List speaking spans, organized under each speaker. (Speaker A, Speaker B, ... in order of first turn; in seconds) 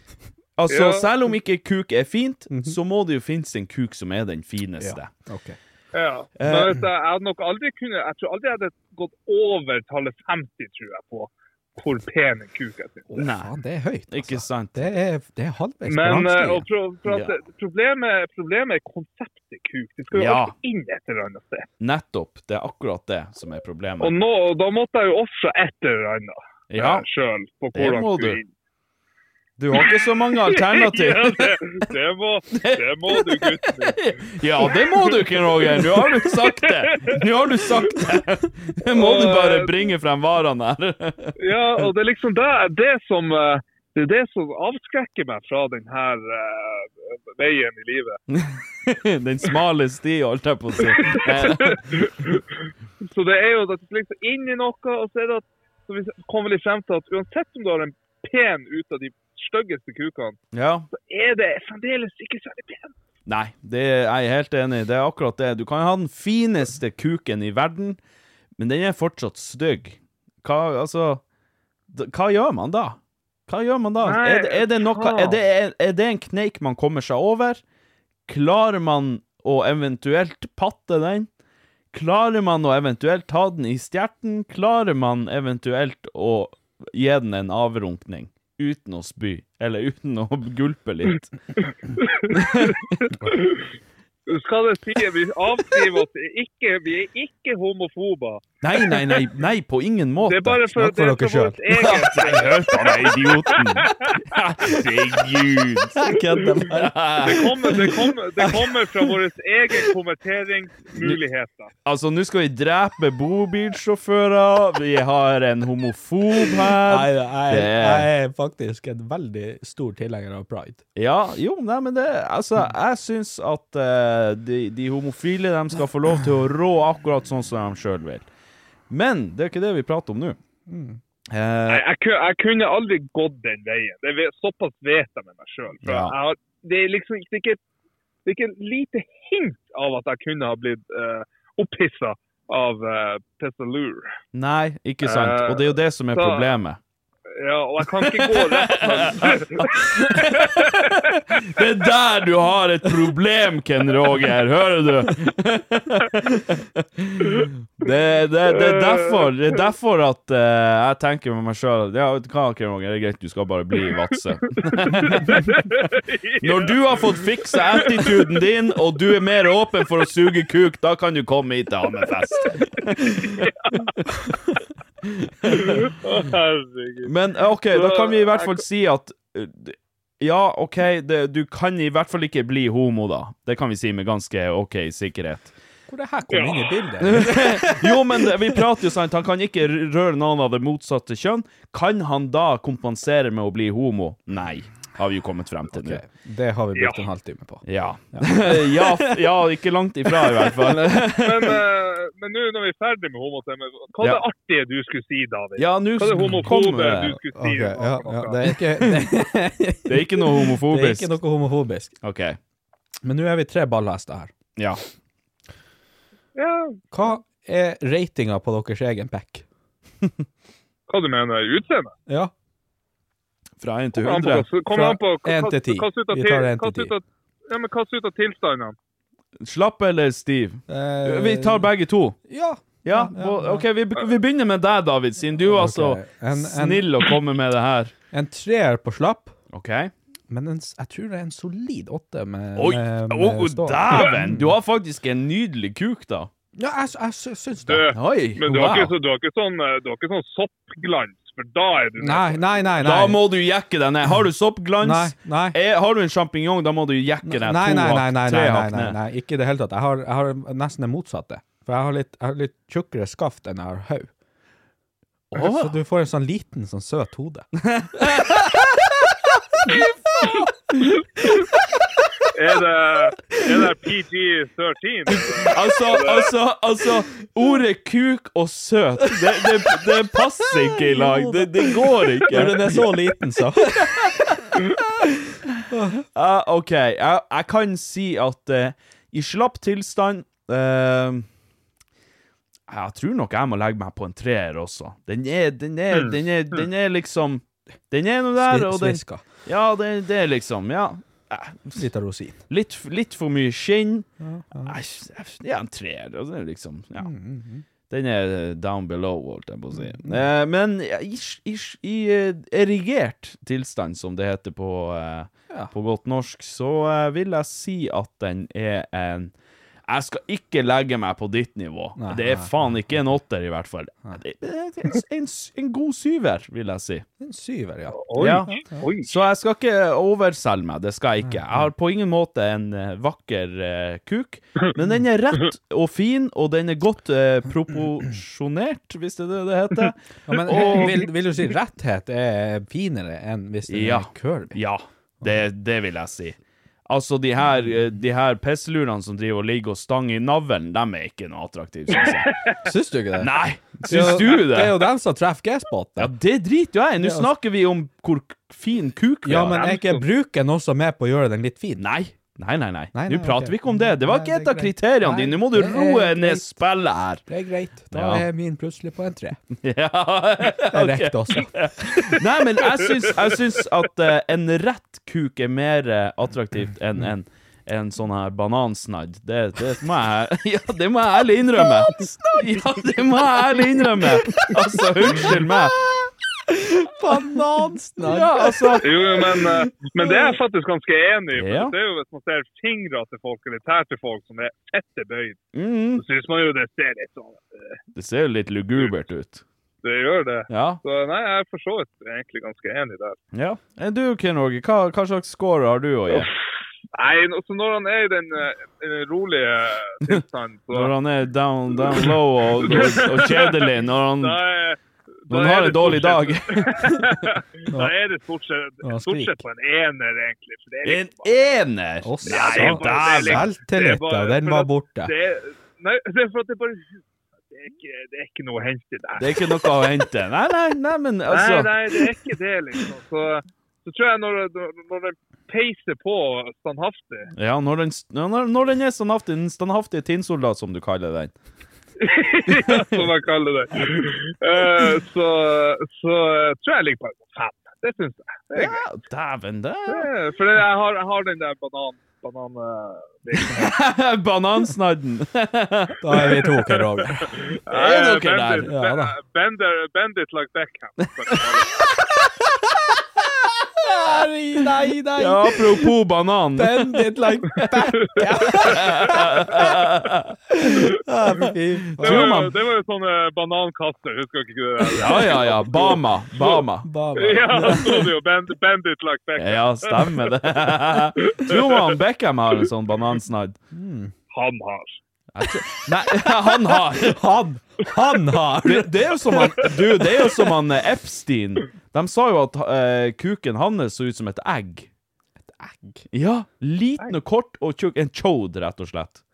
Speaker A: 0.6-5.1, 6.4-6.8, 13.2-13.5, 14.1-14.9, 17.1-17.3, 20.1-20.5, 21.8-24.1, 26.7-27.1, 27.7-28.4, 29.6-31.9, 32.5-41.3, 48.3-52.0, 60.5-60.9, 63.2-68.0, 68.6-71.2, 71.9-77.6, 78.3-81.3, 81.9-91.3, 92.3-92.9, 98.6-100.6, 101.7-108.1, 111.8-118.1, 121.0-128.3, 128.9-130.4, 131.3-131.8, 135.8-136.1, 144.3-146.8, 147.9-165.6, 166.4-173.5, 175.0-175.8, 177.0-185.5, 187.0-196.0, 197.6-201.6, 205.6-207.2, 208.8-209.1, 209.9-211.2, 212.0-212.4, 223.6-224.5, 229.4-232.2, 232.8-237.9, 239.5-239.9, 242.6-246.3, 247.9-248.9, 252.8-258.9, 265.3-265.8, 267.6-268.8, 275.4-283.0, 283.7-285.6, 286.1-291.3, 292.7-301.8, 302.5-304.1, 304.6-307.1, 307.9-319.3, 319.9-327.0, 328.2-341.1, 343.7-352.4, 353.2-354.9, 356.0-359.7, 361.8-367.2, 367.9-368.3, 369.6-385.9, 388.0-390.1, 391.4-391.7, 395.5-396.0, 397.9-399.4, 400.5-400.8, 403.3-406.3, 410.7-414.4, 415.3-417.3, 420.8-423.5, 429.2-432.0, 437.3-441.3, 442.6-442.9, 448.5-450.1, 453.4-456.4, 457.7-458.7, 465.2-467.9, 468.4-470.4, 472.0-472.5, 474.9-476.9, 479.4-483.6, 485.3-487.2, 488.6-494.9, 496.1-499.2
Speaker B: 0.7-1.1, 5.9-13.1, 15.8-21.7, 24.0-28.5, 29.7-37.2, 38.9-39.9, 41.4-48.2, 50.9-52.4, 53.0-60.4, 60.9-62.9, 74.0-75.4, 92.0-93.7, 94.3-99.2, 100.2-104.2, 107.2-111.7, 131.7-137.6, 138.2-144.1, 145.0-146.5, 147.3-151.1, 158.5-159.4, 164.8-168.4, 173.2-173.9, 175.6-177.1, 177.7-178.6, 186.3-186.9, 196.7-197.0, 201.2-208.4, 216.3-216.8, 220.9-221.9, 223.9-228.8, 247.7-252.4, 272.3-276.3, 327.9-329.1, 352.3-352.6, 359.5-360.0, 388.8-395.4, 395.9-397.8, 399.8-403.2, 406.9-410.9, 412.6-414.8, 415.3-421.4, 422.2-429.7, 431.3-437.3, 442.0-448.9, 449.9-453.8, 457.4-461.8, 467.9-468.8, 472.0-476.6, 477.1-480.2, 481.2-482.0, 484.3-485.0
Speaker C: 2.5-2.8, 4.8-5.6, 13.1-16.6, 100.7-101.6, 106.0-106.9, 116.8-120.8, 130.7-131.0, 185.9-188.2, 195.7-199.0, 207.3-211.9, 213.0-214.3, 216.9-219.4, 222.1-222.3, 224.7-226.9, 230.7-231.7, 232.3-233.7, 235.4-236.9, 238.1-239.3, 240.3-244.5, 246.6-247.9, 252.0-253.2, 254.8-255.6, 257.2-264.1, 265.3-268.2, 280.5-284.3, 285.7-286.0, 298.4-299.2, 301.7-302.4, 304.2-304.8, 307.0-307.6, 309.7-310.2, 322.0-322.5, 327.2-328.8, 331.3-331.6, 340.3-344.6, 352.6-356.1, 357.0-357.3, 359.2-361.8, 362.9-366.5, 367.3-369.4, 370.7-372.2, 386.8-388.9, 418.8-419.4, 422.0-425.1, 456.0-457.4, 458.7-459.1, 463.8-465.9, 466.6-469.7, 470.5-472.4, 476.8-478.1, 483.7-484.1, 487.0-489.3, 495.5-496.0